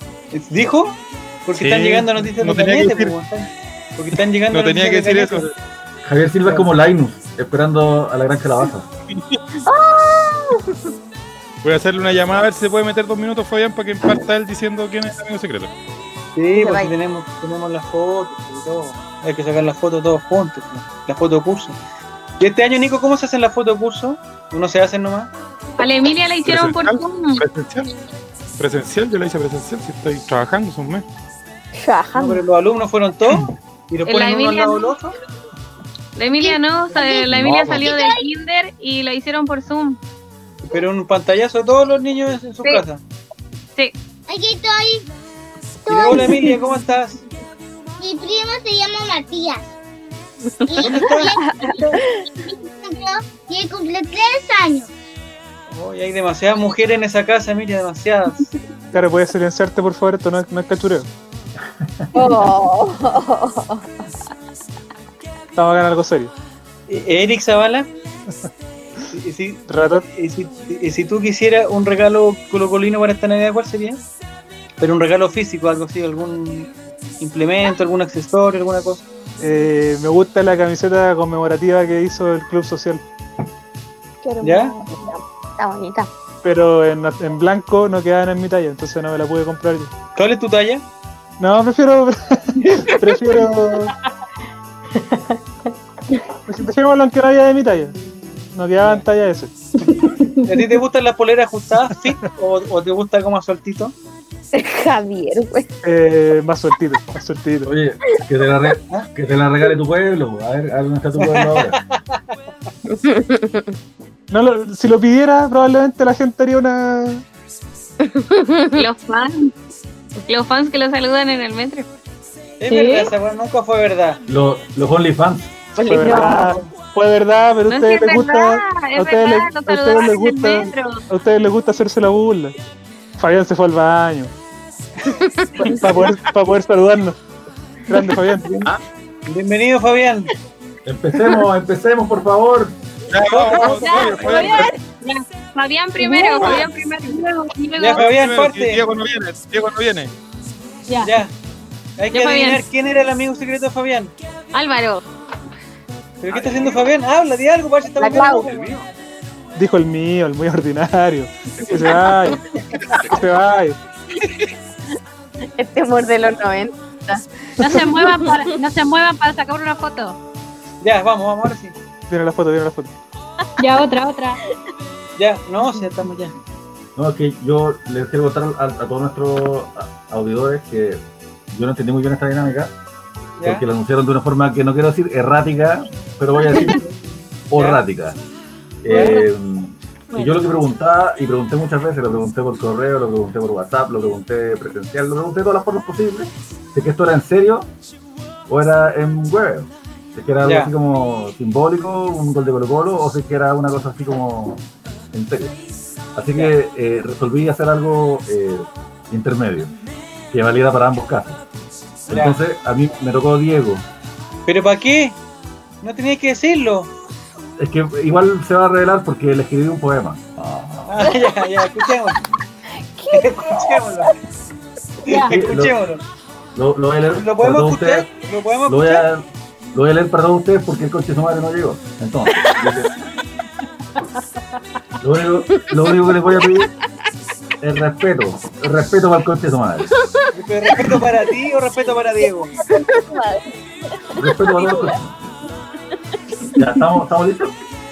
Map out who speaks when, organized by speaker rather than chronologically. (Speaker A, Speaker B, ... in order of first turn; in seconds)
Speaker A: 0.3-5.4, 16.4-21.8, 22.4-25.3, 32.1-35.1, 40.7-43.0, 45.9-47.2, 50.8-51.3, 55.7-58.5, 66.9-67.9, 69.1-74.0, 74.8-79.0, 84.4-84.8, 90.2-90.8, 100.5-103.9, 111.2-112.2, 122.6-124.2, 139.3-140.3, 143.2-144.7, 147.8-148.8, 151.0-151.3, 152.0-154.1, 156.2-158.9, 170.8-171.7, 175.2-176.3, 183.4-183.6, 186.6-186.9, 187.6-187.8, 188.9-189.2, 200.4-200.7, 212.1-212.4, 214.4-215.2, 215.8-216.9, 220.9-222.2, 223.1-224.1, 225.1-226.0, 227.1-229.1, 240.3-242.5
Speaker B: 1.5-3.1, 4.5-5.5, 11.6-15.7, 26.4-27.9, 28.6-31.1, 37.3-37.9, 143.1-144.7, 146.4-146.7, 147.9-150.1, 156.3-156.7
Speaker C: 6.0-8.9, 107.6-111.8, 124.3-125.5, 140.8-142.8, 176.9-182.7, 183.4-186.8, 187.5-188.2, 188.8-197.7, 198.5-205.6, 206.1-209.7, 210.3-211.4, 212.1-213.8, 217.6-221.1, 225.3-225.8, 226.6-228.1, 228.7-232.9, 235.0-236.7, 237.6-239.9, 244.2-245.2, 246.6-247.5
Speaker D: 9.7-10.7, 16.5-16.9, 62.1-63.7, 85.6-86.1, 112.9-113.6, 118.1-118.8, 125.8-126.4, 135.2-135.7, 158.0-158.6, 165.6-168.4, 242.6-243.4, 244.2-244.9
Speaker E: 25.8-27.4, 34.0-34.9, 36.1-40.0, 118.7-119.5, 120.3-121.9, 127.7-131.0, 143.6-148.1, 152.1-152.6, 154.5-155.0
Speaker F: 31.7-32.4, 51.4-51.8, 62.2-62.5, 84.2-85.2, 104.5-105.7, 122.7-123.1, 125.8-126.5
Speaker G: 37.8-38.2, 44.3-45.0, 45.9-46.3, 48.0-49.7, 50.7-51.4, 52.5-54.9
Speaker H: 58.9-61.1, 65.5-66.3, 69.7-70.0, 79.4-83.0, 86.4-89.9, 91.4-93.9, 96.5-97.9, 98.5-99.5, 105.8-107.7, 114.3-117.2, 125.8-132.6, 133.2-134.3, 135.6-137.2, 137.9-138.5, 159.6-162.4, 163.1-163.8, 172.1-172.9
Speaker I: 146.0-146.6, 150.9-151.1, 167.6-170.2, 173.6-174.4